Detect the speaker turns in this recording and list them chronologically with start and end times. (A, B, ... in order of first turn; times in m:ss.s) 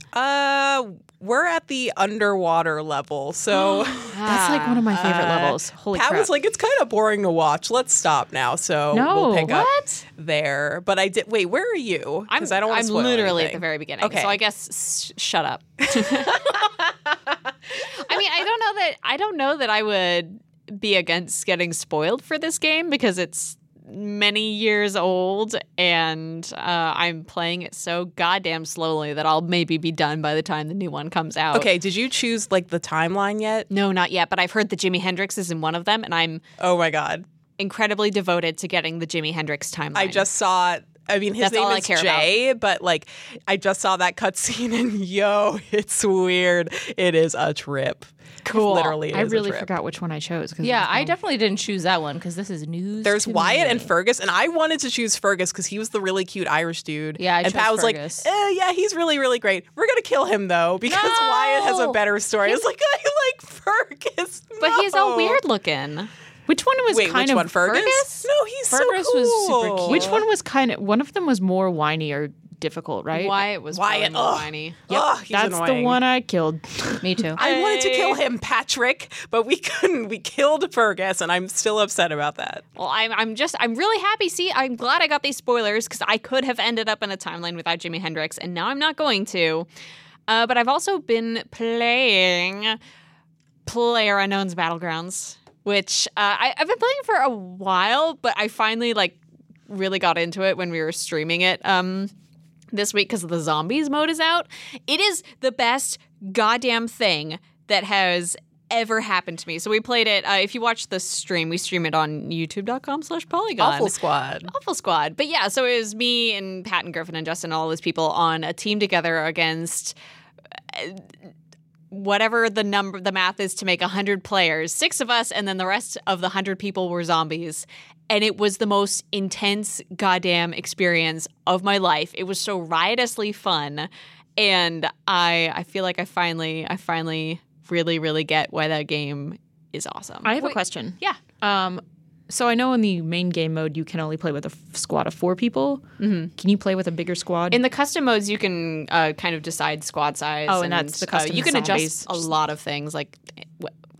0:00.1-0:04.2 A
0:03.5-0:05.1 B
0:04.1-0:06.3 C
0:04.9-0:14.4 A
0:08.9-0:09.7 C
0:09.5-0:10.0 B
0:12.3-0:16.6 B
0:15.9-0:17.2 A
0:17.8-0:31.7 B
0:31.5-0:33.7 A
0:33.7-0:36.4 B
0:36.6-0:37.2 A
0:37.6-0:40.2 B
0:39.9-0:49.7 A
0:41.4-0:42.3 B
0:48.4-0:49.0 B
0:49.1-0:51.1 C
0:50.6-0:53.9 D
0:53.0-1:05.4 A
0:57.2-0:58.3 D
1:00.8-1:02.6 D
1:04.6-1:06.1 B
1:06.5-1:07.8 C
1:06.9-1:10.2 A
1:07.6-1:08.3 B
1:08.7-1:10.2 D
1:09.8-1:13.4 C
1:13.1-1:14.8 B
1:13.7-1:16.0 A
1:14.9-1:17.2 C
1:17.0-1:17.4 D
1:17.4-1:22.6 A
1:17.4-1:18.2 B
1:22.8-1:29.7 B
1:30.3-1:32.8 B
1:33.6-1:42.1 B
1:42.7-1:53.9 B
1:53.6-1:54.5 A
1:54.5-1:59.9 B
2:00.7-2:01.1 B
2:01.9-2:21.2 B
2:20.2-2:25.8 C
2:26.0-2:26.3 B
2:26.3-2:27.6 C
2:27.5-2:33.7 B
2:30.5-2:32.2 C